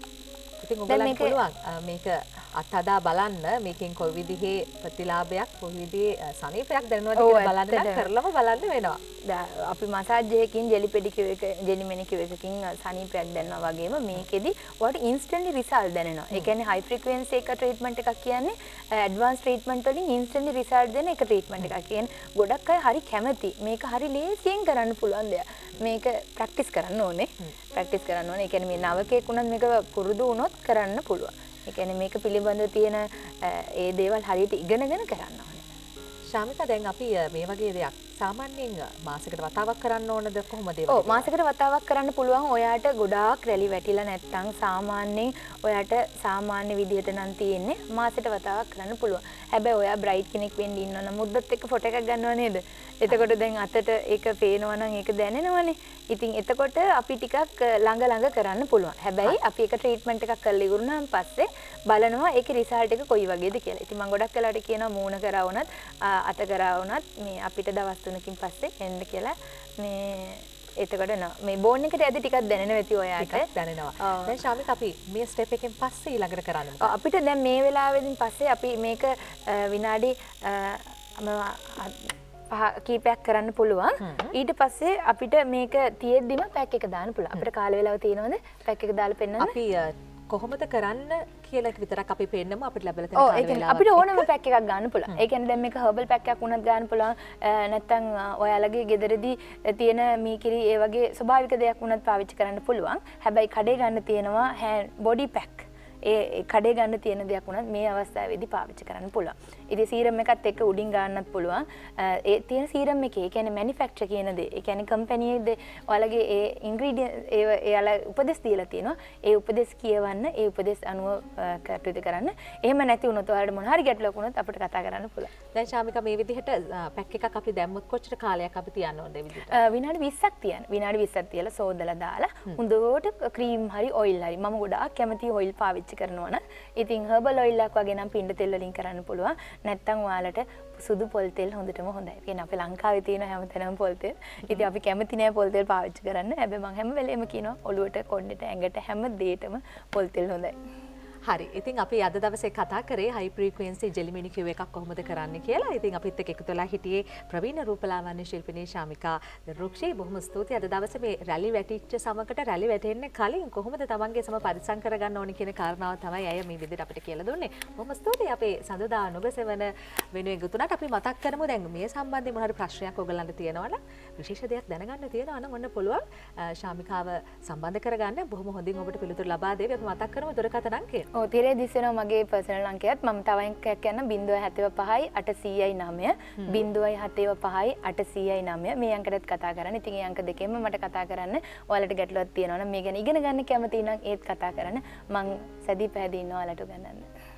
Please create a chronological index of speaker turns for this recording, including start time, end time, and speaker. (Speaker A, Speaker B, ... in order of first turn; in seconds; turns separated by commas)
Speaker A: 0.6-9.0, Speaker B: 0.9-1.4, Speaker B: 7.2-8.1, Speaker B: 9.2-35.6, Speaker A: 36.3-41.3, Speaker B: 40.9-73.5, Speaker A: 73.2-76.9, Speaker B: 76.8-89.5, Speaker A: 84.0-84.3, Speaker A: 89.4-94.3, Speaker B: 93.2-125.3, Speaker A: 125.5-129.6, Speaker B: 129.5-150.5, Speaker A: 151.2-181.1, Speaker B: 181.1-197.1